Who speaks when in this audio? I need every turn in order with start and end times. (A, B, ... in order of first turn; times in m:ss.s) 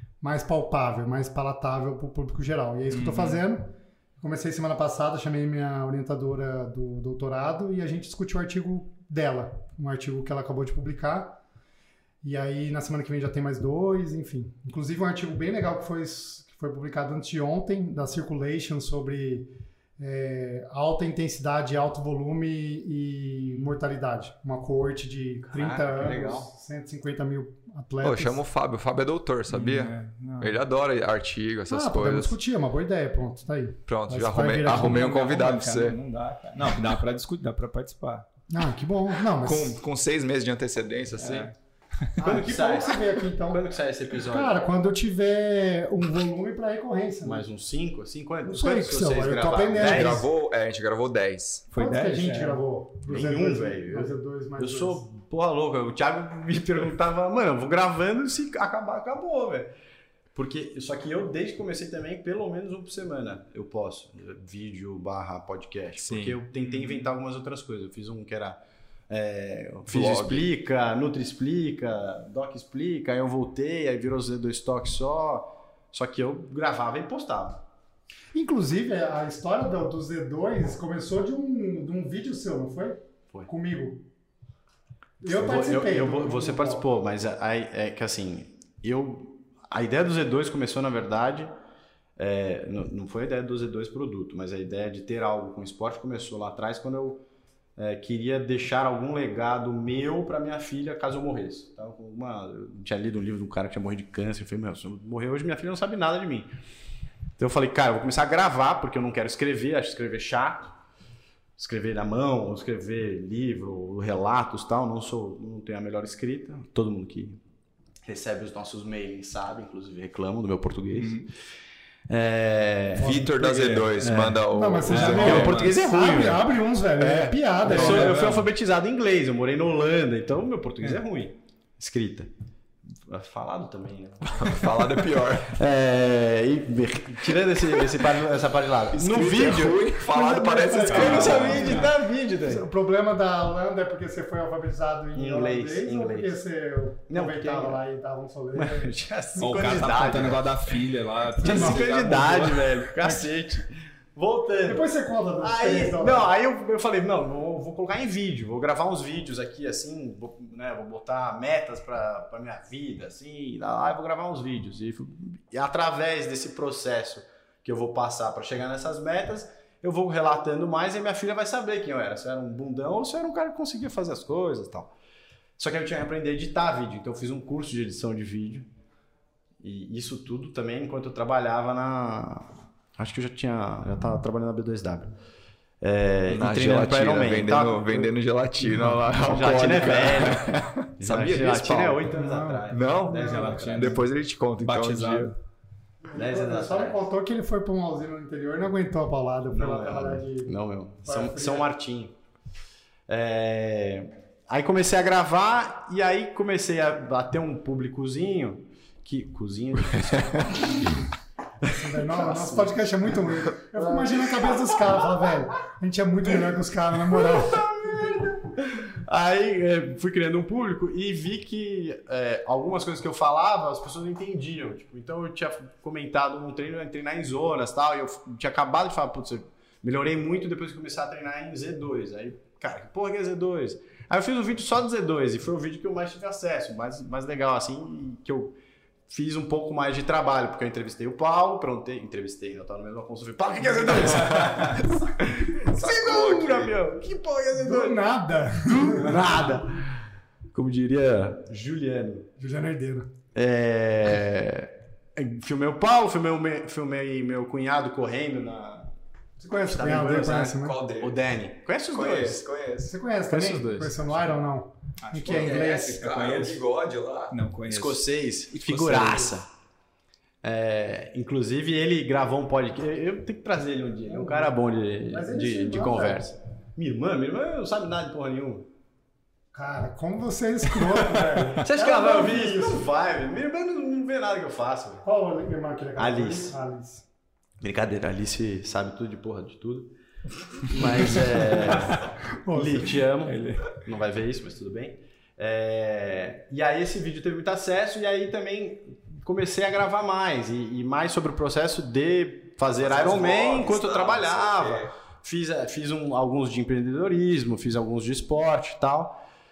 0:00.2-0:11.4 A
0:02.9-0:03.4 B
0:12.2-0:28.4 A
0:25.5-0:26.5 C
0:28.0-0:32.4 D
0:29.5-0:30.6 B
0:31.7-0:35.0 A
0:33.9-0:36.0 D
0:34.6-0:38.2 B
0:38.5-0:39.8 A
0:39.3-0:41.5 D
0:41.2-0:42.2 B
0:42.2-0:43.6 A
0:42.2-0:44.7 C
0:44.2-0:47.4 A
0:47.2-0:50.2 C
0:48.4-0:50.2 A
0:49.8-0:51.7 D
0:51.7-0:52.6 B
0:51.8-0:55.0 A
0:53.1-0:59.7 C
1:00.4-1:17.6 C
1:06.0-1:06.4 D
1:06.5-1:07.0 B
1:09.9-1:10.5 D
1:18.3-1:24.1 A
1:25.2-1:26.8 A
1:25.2-1:31.5 C
1:32.2-1:37.2 C
1:37.8-1:46.5 C
1:47.4-1:50.7 C
1:51.6-1:57.4 C
1:58.0-2:01.2 C
2:01.0-2:01.3 B
2:02.1-2:03.2 C
2:03.0-2:05.7 D
2:03.2-2:04.0 B
2:04.0-2:04.4 C
2:04.5-2:08.2 A
2:04.9-2:05.8 B
2:05.0-2:12.3 C
2:07.6-2:08.5 B
2:12.9-2:20.0 C
2:14.4-2:15.6 D
2:18.9-2:21.8 D
2:20.0-2:28.9 A
2:20.7-2:22.6 C
2:20.9-2:21.9 B
2:25.1-2:26.4 C
2:27.1-2:27.8 C
2:28.5-2:30.8 C
2:29.4-2:32.8 B
2:31.4-2:34.9 C
2:31.4-2:31.9 A
2:33.0-2:33.3 A
2:34.6-2:36.3 A
2:35.4-2:54.9 C
2:55.6-2:58.7 C
2:59.6-3:05.1 C
3:05.8-3:08.1 C
3:06.3-3:12.1 D
3:09.2-3:14.0 C
3:10.3-3:10.6 B
3:12.1-3:13.5 A
3:12.7-3:15.3 D
3:13.1-3:14.0 B
3:14.6-3:15.4 B
3:16.0-3:21.7 A
3:16.1-3:17.1 C
3:19.5-3:22.1 C
3:23.1-3:31.0 C
3:31.6-3:35.3 C
3:31.6-3:38.2 A
3:37.0-3:58.6 C
3:59.1-4:08.0 C
4:05.6-4:06.7 D
4:07.5-4:09.3 A
4:08.6-4:12.3 C
4:12.4-4:13.1 A
4:13.4-4:18.9 C
4:19.4-4:20.8 A
4:19.6-4:22.5 C
4:20.6-4:21.2 D
4:21.9-4:22.9 D
4:22.8-4:26.0 A
4:23.3-4:24.4 C
4:25.0-4:26.6 B
4:25.2-4:27.4 D
4:27.3-4:28.0 B
4:27.7-4:29.5 C
4:28.5-4:29.3 B
4:30.4-4:38.7 C
4:34.1-4:34.5 A
4:35.1-4:36.2 A
4:39.5-4:42.8 A
4:41.6-4:45.0 C
4:45.0-4:47.0 A
4:46.0-4:46.6 C
4:47.6-4:49.9 C
4:50.6-5:09.2 C
4:51.5-4:53.0 A
4:53.2-4:53.7 B
5:02.8-5:04.9 D